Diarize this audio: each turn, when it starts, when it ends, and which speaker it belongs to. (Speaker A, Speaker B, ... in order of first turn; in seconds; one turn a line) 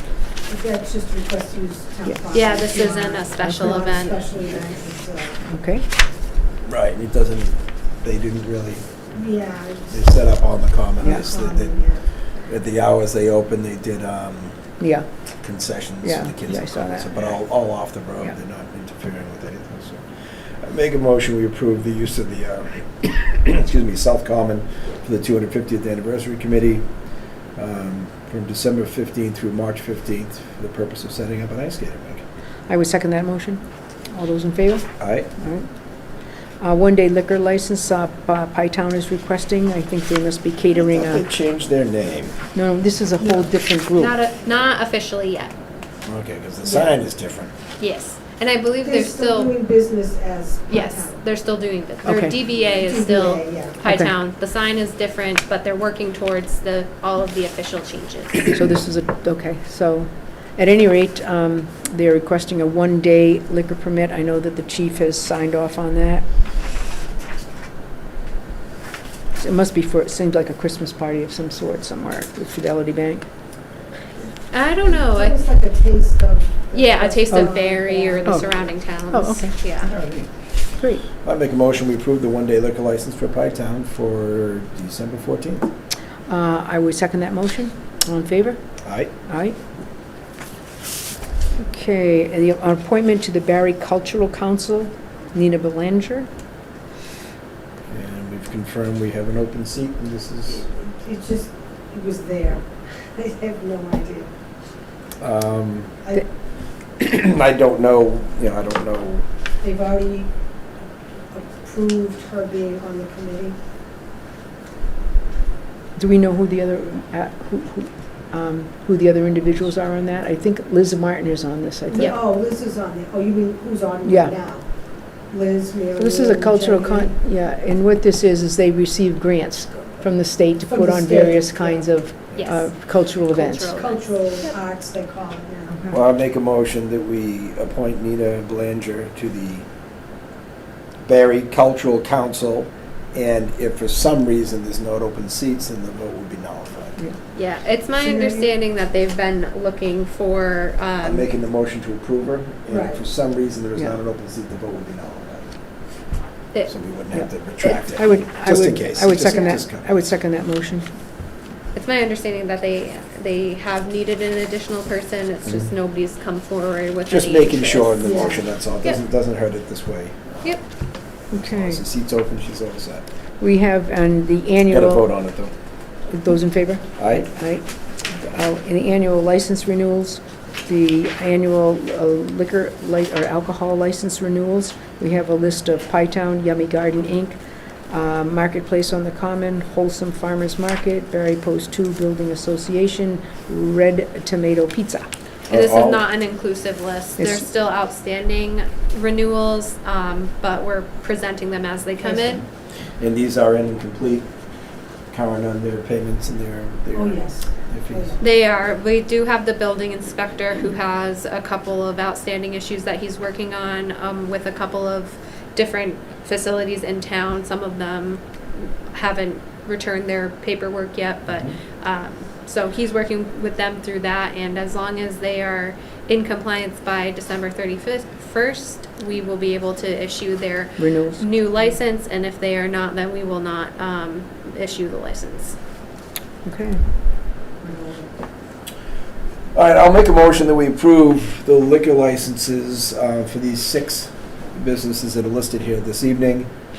Speaker A: 0.5-5.4
Speaker B: 2.3-4.3
Speaker C: 3.4-3.8
Speaker C: 5.4-5.8
Speaker D: 6.6-9.2
Speaker A: 9.2-9.9
Speaker D: 9.9-11.8
Speaker A: 11.0-12.0
Speaker D: 12.4-14.6
Speaker C: 14.8-15.1
Speaker D: 15.4-26.8
Speaker C: 16.0-17.2
Speaker D: 27.6-32.2
Speaker C: 32.7-35.7
Speaker D: 35.0-35.3
Speaker C: 36.6-41.2
Speaker D: 40.7-42.4
Speaker C: 42.5-44.1
Speaker B: 44.0-45.5
Speaker D: 46.0-47.5
Speaker A: 46.6-46.9
Speaker B: 47.8-49.5
Speaker A: 48.8-51.2
Speaker B: 50.7-58.5
Speaker C: 52.0-52.3
Speaker A: 52.7-53.8
Speaker C: 53.8-54.1
Speaker C: 58.5-66.2
Speaker C: 69.3-73.2
Speaker B: 74.5-75.4
Speaker A: 74.8-78.8
Speaker B: 76.7-79.9
Speaker C: 79.1-79.5
Speaker D: 79.8-80.3
Speaker C: 80.8-81.0
Speaker D: 81.2-85.7
Speaker C: 86.3-88.6
Speaker D: 88.8-89.1
Speaker C: 89.2-89.6
Speaker C: 91.6-96.3
Speaker D: 97.9-100.7
Speaker A: 100.5-104.3
Speaker D: 105.2-106.0
Speaker D: 107.0-109.2
Speaker A: 109.6-110.3
Speaker A: 111.3-113.5
Speaker C: 116.0-122.1
Speaker A: 121.9-124.7
Speaker C: 124.0-124.3
Speaker A: 125.3-127.1
Speaker C: 126.0-133.7
Speaker A: 130.7-131.9
Speaker B: 132.3-134.5
Speaker A: 133.7-135.8
Speaker D: 135.9-139.7
Speaker D: 141.0-147.0
Speaker B: 147.3-151.3
Speaker A: 147.9-148.5
Speaker D: 151.0-155.5
Speaker A: 152.7-153.0
Speaker D: 156.7-160.1
Speaker C: 157.1-160.9
Speaker B: 159.2-159.5
Speaker B: 161.7-168.0
Speaker D: 167.1-170.5
Speaker A: 168.0-168.5
Speaker C: 171.3-171.8
Speaker D: 171.3-173.0
Speaker C: 173.4-175.1
Speaker D: 174.7-175.5
Speaker C: 176.1-187.4
Speaker D: 177.0-177.3
Speaker C: 187.9-195.1
Speaker D: 195.5-196.0
Speaker B: 195.5-202.4
Speaker C: 197.2-197.4
Speaker A: 202.0-202.4
Speaker D: 203.0-204.3
Speaker D: 205.1-208.2
Speaker A: 206.9-208.2
Speaker B: 208.2-235.6
Speaker C: 230.8-231.2
Speaker C: 236.4-236.8
Speaker A: 237.6-238.1
Speaker D: 239.5-246.5